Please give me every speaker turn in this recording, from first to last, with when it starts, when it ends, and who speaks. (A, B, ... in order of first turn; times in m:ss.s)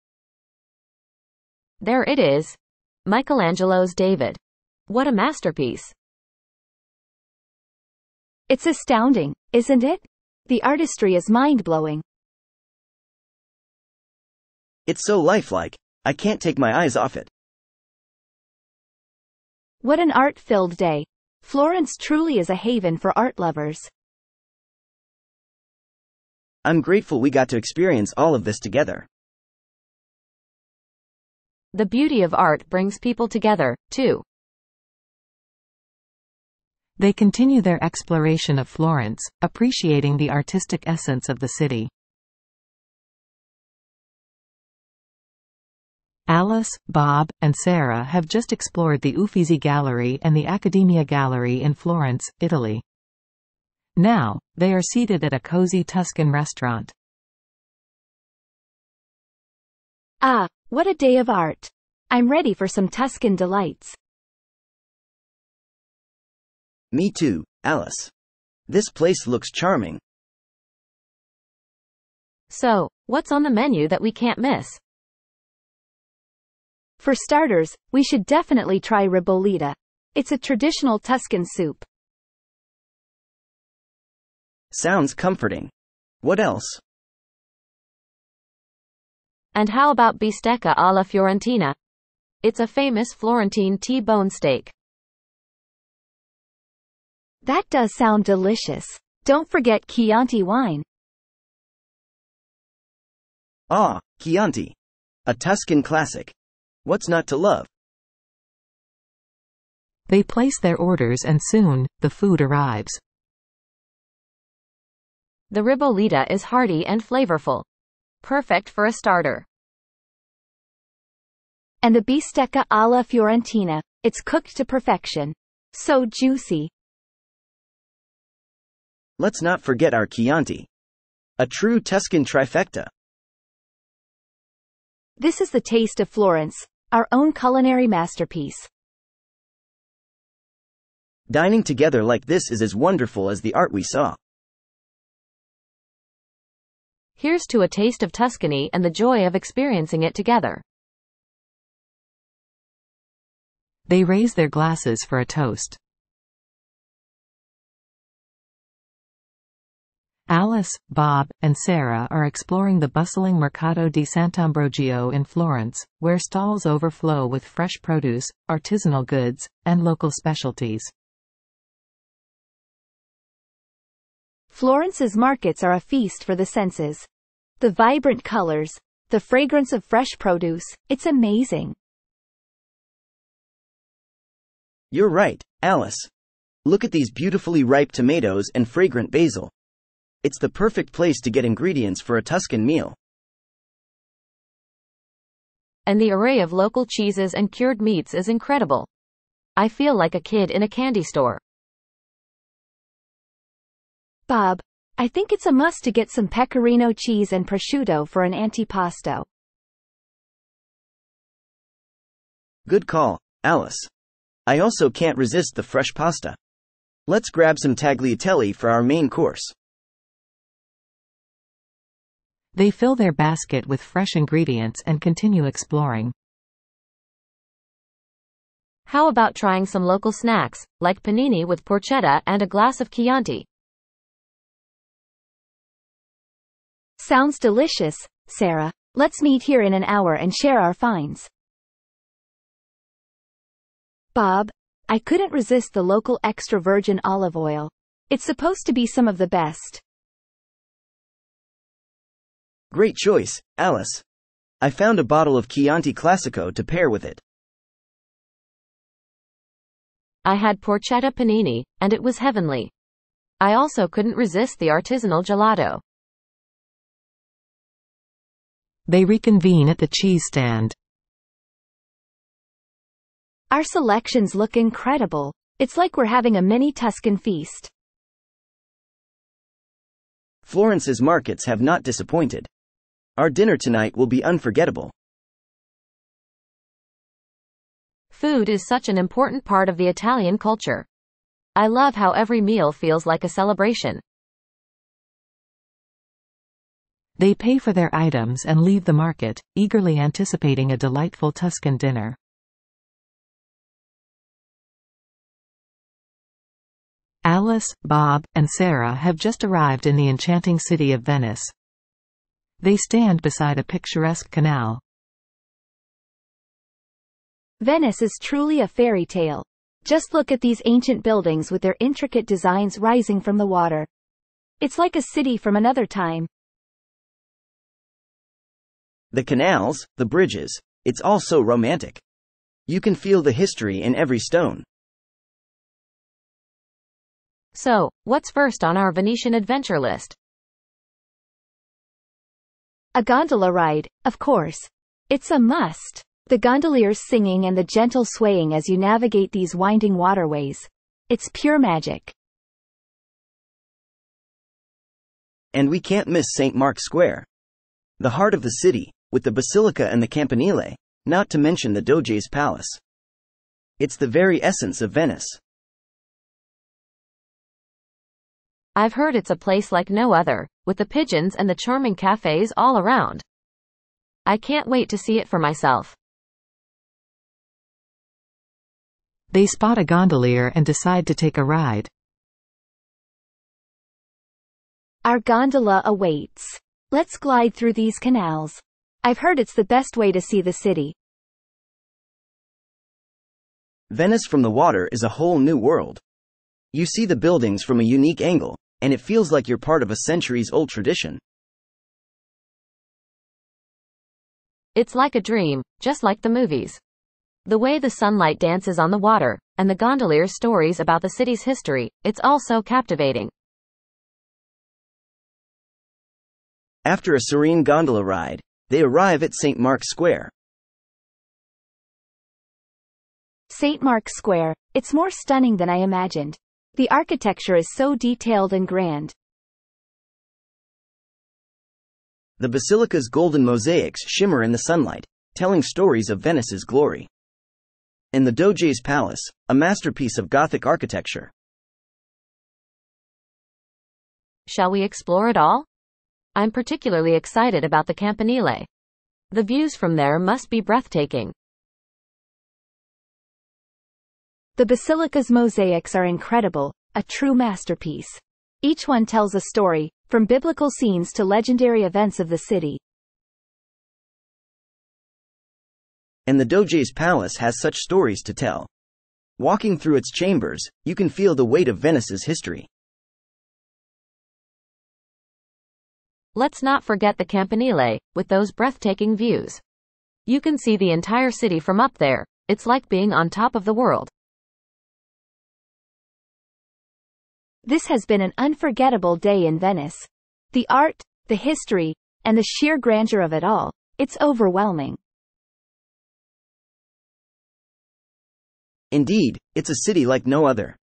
0:01.8-0:05.9 A
0:08.5-0:12.0 B
0:14.9-0:17.3 C
0:19.8-0:23.9 B
0:26.6-0:29.1 C
0:31.7-0:34.2 A
0:37.0-0:41.9 D
0:46.3-0:52.8 D
0:54.0-0:56.9 D
1:00.2-1:03.9 B
1:06.9-1:08.1 C
1:08.7-1:10.0 C
1:12.5-1:14.8 A
1:17.0-1:21.8 B
1:24.7-1:25.7 C
1:26.2-1:26.8 C
1:29.5-1:31.7 A
1:32.4-1:34.7 A
1:37.4-1:40.8 B
1:43.7-1:44.7 C
1:45.2-1:46.3 C
1:46.8-1:47.7 C
1:50.1-1:53.0 D
1:55.5-1:57.6 A
1:58.2-1:59.4 A
2:01.8-2:06.7 B
2:09.2-2:10.7 C
2:11.4-2:12.9 C
2:15.2-2:18.7 B
2:21.3-2:24.2 C
2:27.2-2:30.6 A
2:33.9-2:35.8 D
2:40.3-2:50.9 D
2:54.5-2:57.0 B
2:57.6-3:01.7 B
3:04.9-3:06.1 C
3:06.6-3:09.5 C
3:10.2-3:13.0 C
3:15.9-3:18.9 A
3:19.6-3:21.4 A
3:24.3-3:29.2 B
3:32.6-3:33.9 C
3:34.4-3:36.4 C
3:37.1-3:39.5 C
3:42.5-3:46.1 D
3:48.8-3:53.4 A
3:57.0-4:01.3 B
4:04.1-4:09.8 B
4:12.7-4:14.0 C
4:14.6-4:17.2 C
4:20.2-4:22.7 A
4:23.4-4:25.8 A
4:28.9-4:30.7 D
4:33.5-4:37.7 B
4:40.4-4:42.5 C
4:43.2-4:44.9 C
4:48.1-4:50.8 A
4:51.6-4:54.0 A
4:57.2-5:02.2 D
5:07.2-5:11.5 D
5:12.6-5:14.8 D
5:17.6-5:23.9 B
5:24.6-5:26.3 B
5:29.1-5:32.0 C
5:32.7-5:34.6 C
5:37.5-5:40.1 A
5:42.9-5:52.1 B
5:55.5-5:57.2 C
5:58.0-6:02.8 C
6:03.8-6:05.4 C
6:08.8-6:13.2 A
6:14.2-6:15.9 A
6:19.3-6:21.9 D
6:25.0-6:30.9 B
6:33.9-6:36.0 C
6:36.7-6:41.2 C
6:44.8-6:46.8 A
6:47.4-6:53.3 A
6:56.8-7:00.3 C
7:03.5-7:09.1 B
7:12.4-7:17.1 C
7:18.1-7:21.3 C
7:24.5-7:25.6 A
7:26.3-7:28.7 A
7:29.3-7:31.3 A
7:34.6-7:42.8 B
7:46.3-7:48.7 C
7:49.4-7:52.7 C
7:56.3-7:59.6 A
8:00.3-8:04.1 A
8:07.6-8:15.0 B
8:18.9-8:20.8 C